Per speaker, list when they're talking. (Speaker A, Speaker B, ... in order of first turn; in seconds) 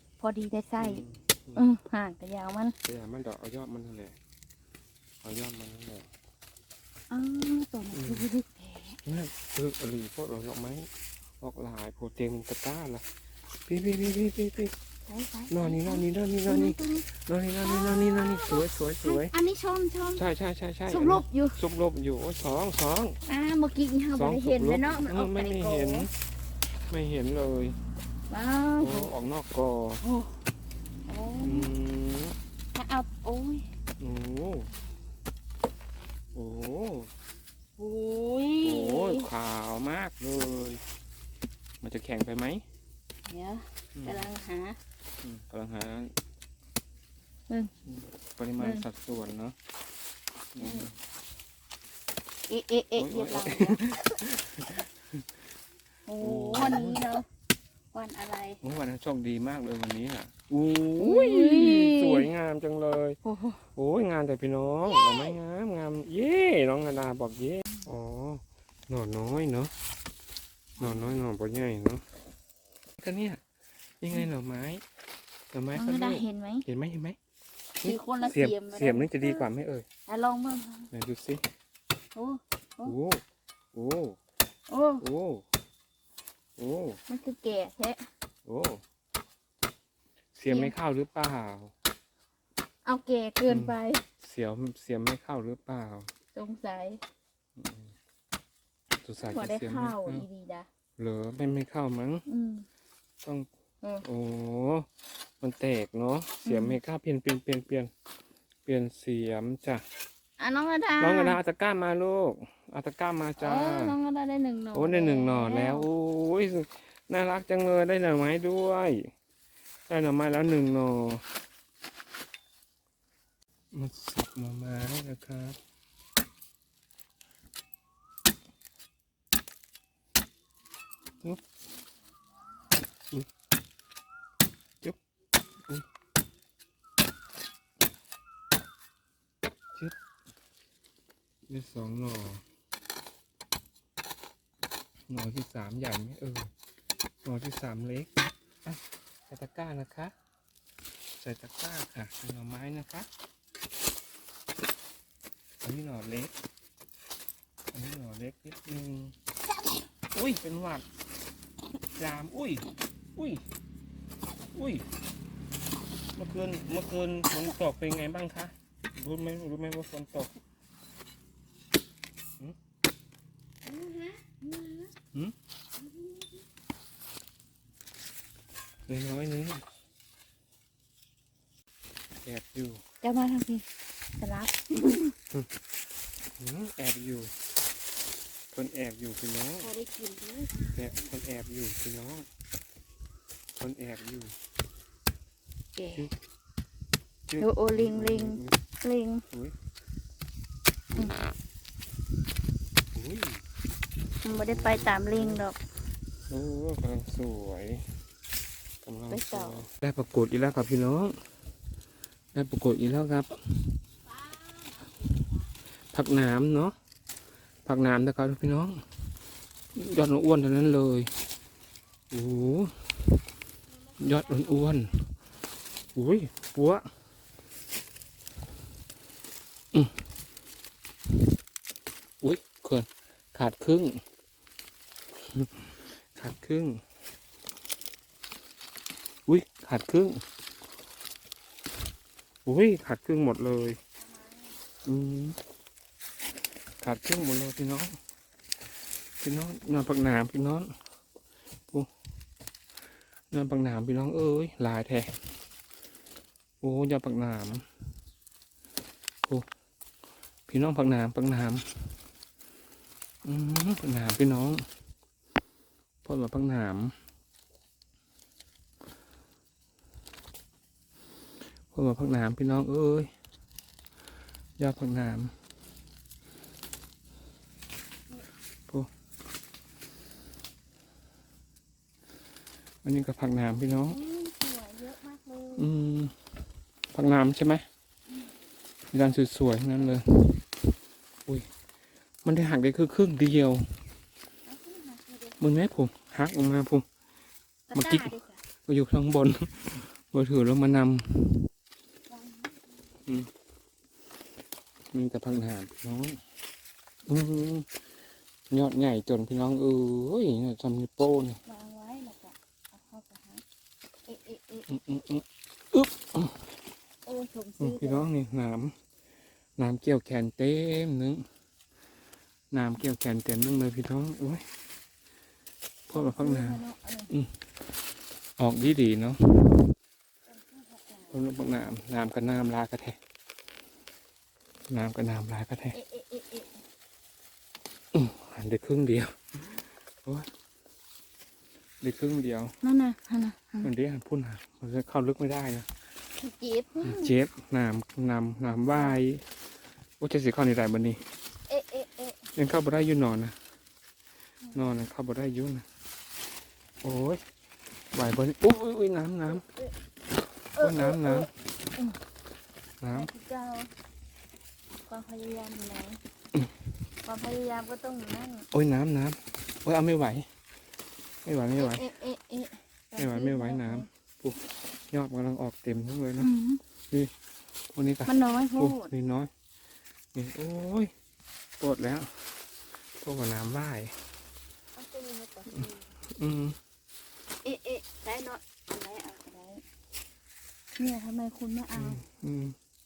Speaker A: 0.2-1.0, 1.6-2.7, 7.1-9.0, 15.1-17.1, 17.6-20.2, 20.9-21.6, 23.2-26.1, 28.3-29.1, 30.0-30.4, 31.1-31.7, 32.7-33.6, 37.8-39.3, 43.3-44.8, 48.6-48.9, 50.6-50.9, 52.5-54.1, 56.1-57.3, 57.9-58.6, 61.0-62.3, 63.2-63.6, 64.8-65.4, 70.8-71.1, 75.7-76.7, 77.8-79.5, 80.1-80.9, 82.1-82.9, 84.7-85.0, 87.1-88.0, 90.5-90.7, 92.8-94.0, 96.3-97.0, 99.2-100.7, 102.2-102.6, 106.4-106.8, 110.4-111.4, 113.4-115.9, 173.6-174.9, 175.8-176.3, 183.0-183.7, 184.2-185.1, 189.6-190.8, 195.8-196.1, 197.4-199.2, 200.9-201.2, 204.2-205.6, 209.1-209.6, 283.9-285.7, 294.4-295.4, 297.7-298.4, 302.1-302.8, 311.4-313.4, 314.1-314.7, 317.0-318.1, 325.9-327.1, 330.3-331.2, 335.7-336.6, 342.6-343.7, 346.2-347.1, 348.7-349.0, 351.5-352.2, 354.4-354.8, 359.2-359.7, 360.5-362.0, 362.9-363.7, 364.9-366.0, 367.0-368.5, 371.6-373.9, 376.2-376.6, 378.0-378.9, 384.8-385.9, 387.4-389.6, 390.8-392.0
Speaker B: 0.8-1.6, 2.8-4.2, 5.2-6.1, 7.9-8.3, 9.0-10.9, 11.4-13.0, 13.7-14.7, 15.5-19.3, 20.1-23.2, 24.1-26.1, 26.9-27.8, 28.8-30.0, 31.4-32.4, 34.0-34.7, 36.3-37.1, 38.6-40.8, 41.8-42.6, 43.9-44.3, 45.2-46.1, 47.9-49.5, 50.5-50.9, 53.0-55.2, 56.2-57.0, 58.6-63.2, 63.7-69.7, 70.8-72.0, 73.0-73.4, 74.0-74.8, 75.5-77.2, 77.8-79.8, 80.9-81.4, 82.8-83.2, 83.7-84.2, 85.0-85.4, 86.6-87.0, 88.4-88.8, 90.3-91.7, 93.5-96.1, 97.6-97.9, 99.0-100.2, 101.0-102.2, 103.2-103.5, 104.0-107.9, 108.7-109.8, 111.0-113.9, 114.7-119.1, 119.9-121.2, 123.7-125.6, 141.5-142.4, 145.1-146.5, 147.2-148.1, 148.6-150.1, 151.2-153.1, 155.6-156.3, 157.7-159.1, 160.1-160.8, 161.9-163.4, 164.5-164.8, 166.2-170.3, 178.9-179.6, 182.2-182.8, 186.4-187.3, 188.5-189.7, 190.7-192.3, 193.6-194.3, 197.3-198.6, 199.3-199.5, 202.9-203.4, 204.4-205.4, 206.3-207.8, 208.8-211.1, 212.3-213.8, 215.9-216.7, 217.6-218.8, 219.7-221.1, 222.1-223.2, 224.0-225.1, 225.9-226.8, 232.2-234.0, 235.3-236.8, 239.3-240.2, 242.4-243.8, 244.8-245.4, 246.8-247.9, 249.2-250.7, 253.3-255.2, 256.6-257.6, 260.5-261.9, 263.2-264.6, 266.0-266.9, 271.7-273.1, 274.6-275.3, 282.8-284.0, 285.6-286.1, 286.9-287.6, 288.9-290.4, 292.2-293.8, 295.4-296.8, 297.7-298.1, 298.7-301.5, 304.9-306.2, 307.1-307.7, 308.5-311.4, 314.7-316.5, 317.6-318.7, 319.6-321.2, 322.5-324.4, 325.9-327.3, 328.4-329.6, 331.1-333.0, 334.7-335.8, 337.9-340.3, 341.8-342.6, 343.6-345.7, 346.8-349.2, 350.0-351.0, 352.3-353.3, 354.5-355.6, 356.8-357.2, 357.9-359.4, 360.6-361.3, 362.8-363.1, 368.5-370.3, 371.2-371.9, 372.9-376.3, 377.7-379.3, 380.1-380.9, 381.6-382.1, 383.0-383.9, 386.1-386.6, 391.7-392.6